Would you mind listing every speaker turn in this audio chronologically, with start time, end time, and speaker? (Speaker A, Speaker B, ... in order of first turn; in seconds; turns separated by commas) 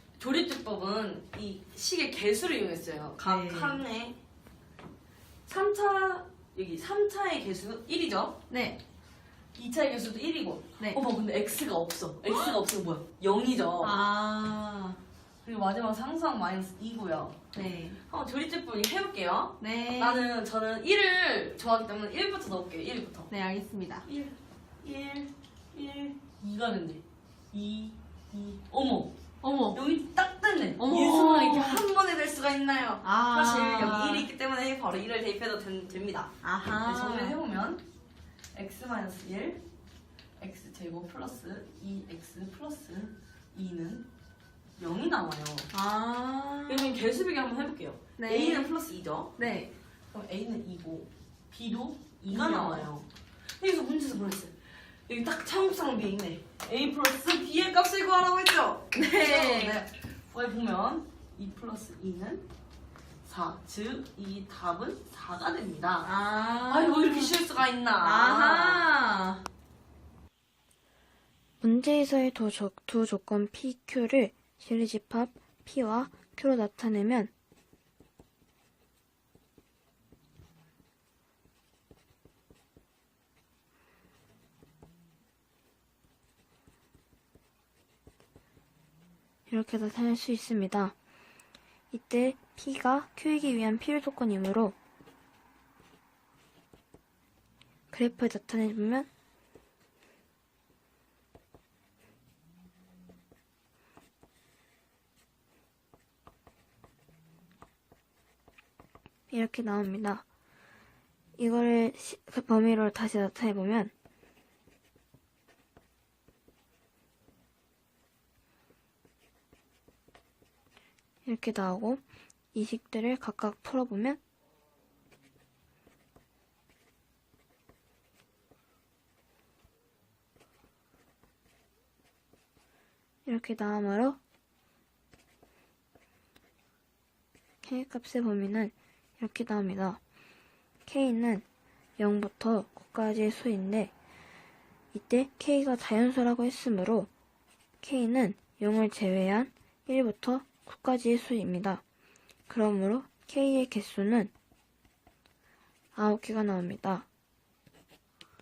Speaker A: 0.2-4.2, Speaker B: 3.2-3.8, Speaker A: 5.5-8.4, Speaker B: 8.5-8.8, Speaker A: 9.5-14.0, Speaker B: 13.8-15.0, Speaker A: 15.4-17.4, Speaker B: 17.5-18.0, Speaker A: 18.1-23.3, Speaker B: 19.6-20.3, Speaker B: 23.3-24.1, Speaker A: 24.0-29.1, Speaker B: 29.4-29.8, Speaker A: 29.7-37.8, Speaker B: 30.8-31.8, Speaker B: 33.0-34.3, Speaker B: 36.4-37.4, Speaker A: 38.5-39.6, Speaker A: 40.4-44.1, Speaker A: 44.8-45.7, Speaker B: 45.7-47.0, Speaker A: 46.7-49.4, Speaker B: 48.2-48.7, Speaker B: 49.4-49.7, Speaker A: 50.1-53.1, Speaker B: 52.3-52.9, Speaker A: 53.6-62.5, Speaker B: 58.9-59.8, Speaker A: 63.2-66.1, Speaker B: 66.0-67.3, Speaker A: 66.7-68.9, Speaker B: 68.0-69.4, Speaker C: 71.6-77.3, Speaker C: 89.5-90.9, Speaker C: 91.9-94.8, Speaker C: 97.9-99.1, Speaker C: 109.3-110.2, Speaker C: 111.4-113.9, Speaker C: 121.2-122.0, Speaker C: 122.5-124.2, Speaker C: 133.2-134.2, Speaker C: 137.6-140.0, Speaker C: 140.8-141.4, Speaker C: 142.0-143.9, Speaker C: 144.9-147.1, Speaker C: 147.8-151.8, Speaker C: 152.5-154.3, Speaker C: 155.9-157.1